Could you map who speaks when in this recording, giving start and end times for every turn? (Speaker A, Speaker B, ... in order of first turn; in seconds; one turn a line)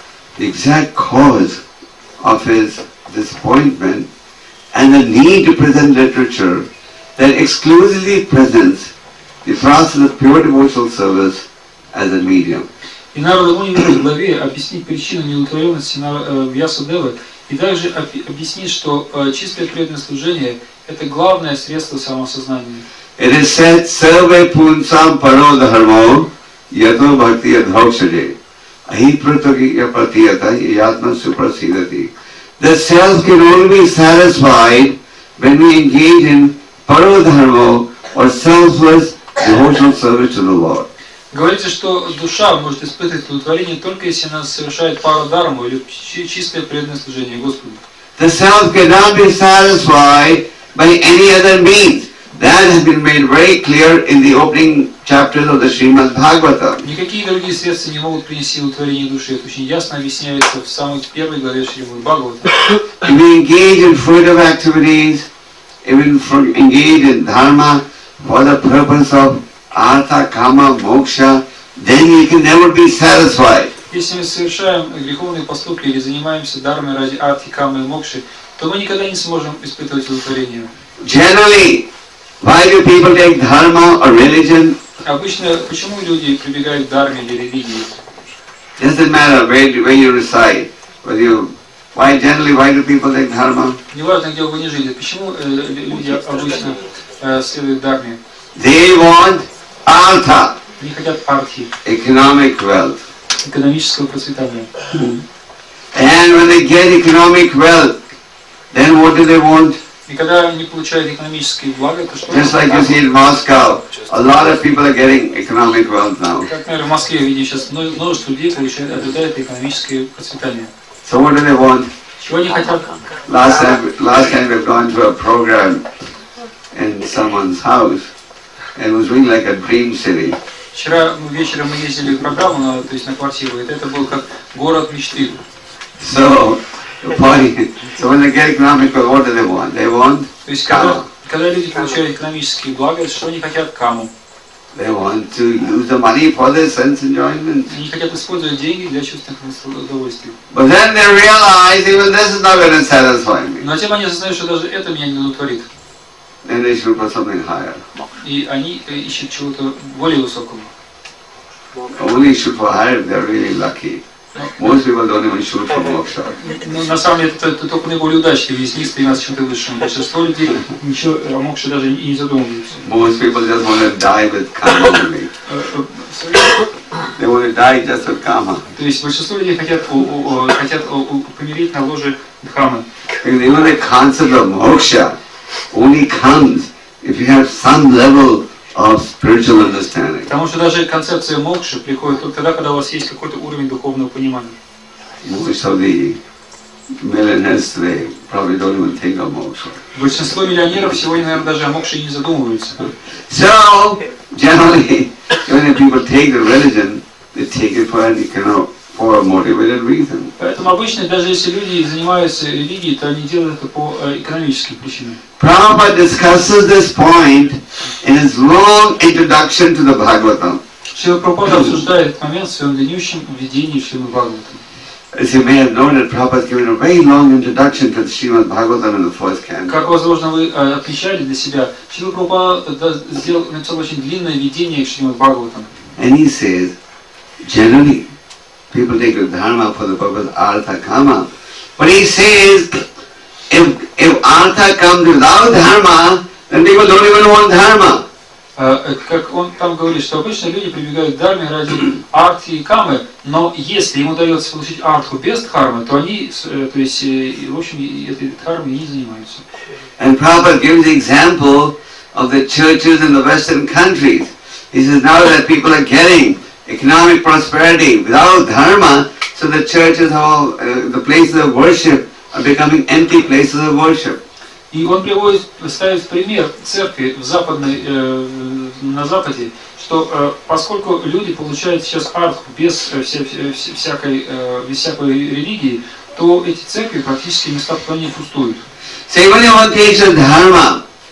Speaker A: 0.4-1.6
Speaker A: 2.2-4.1
Speaker A: 4.7-8.9
Speaker A: 9.4-12.7
Speaker B: 13.1-22.9
Speaker A: 23.2-40.9
Speaker B: 41.3-47.8
Speaker A: 48.2-56.8
Speaker B: 56.8-62.6
Speaker A: 63.0-65.3
Speaker A: 65.8-73.7
Speaker B: 73.9-80.7
Speaker A: 81.0-81.9
Speaker A: 82.4-84.8
Speaker B: 85.0-88.0
Speaker A: 88.8-93.8
Speaker B: 93.9-98.2
Speaker A: 98.5-100.6
Speaker B: 100.8-101.7
Speaker A: 101.8-103.0
Speaker B: 103.4-104.7
Speaker A: 104.9-105.2
Speaker A: 105.9-108.0
Speaker A: 108.7-109.8
Speaker B: 110.1-113.0
Speaker A: 112.3-116.5
Speaker B: 116.5-120.7
Speaker A: 121.0-121.9
Speaker B: 122.2-122.9
Speaker A: 123.2-125.9
Speaker A: 126.7-128.1
Speaker A: 128.8-130.4
Speaker B: 130.7-135.4
Speaker A: 136.0-141.1
Speaker B: 140.5-144.1
Speaker A: 144.7-147.8
Speaker B: 147.7-150.4
Speaker A: 150.5-153.7
Speaker B: 153.6-155.7
Speaker A: 156.4-157.8
Speaker B: 158.2-160.7
Speaker A: 161.9-164.0
Speaker B: 164.4-164.6
Speaker A: 164.6-166.4
Speaker B: 166.4-172.9
Speaker A: 172.8-175.3
Speaker B: 175.5-176.7
Speaker A: 177.2-178.7
Speaker B: 178.8-182.8
Speaker A: 183.2-185.2
Speaker A: 185.7-190.3
Speaker B: 190.3-194.6
Speaker A: 195.2-196.2
Speaker A: 196.9-199.8
Speaker B: 199.9-202.8
Speaker A: 202.8-210.3
Speaker B: 210.4-215.2
Speaker A: 215.4-220.6
Speaker B: 220.9-224.6
Speaker A: 221.4-221.8
Speaker A: 225.1-229.9
Speaker B: 229.7-235.7
Speaker A: 236.0-236.8
Speaker A: 237.4-238.1
Speaker A: 238.7-242.9
Speaker A: 243.5-248.1
Speaker B: 248.6-259.4
Speaker A: 260.0-274.2
Speaker B: 274.7-288.6
Speaker A: 289.1-290.8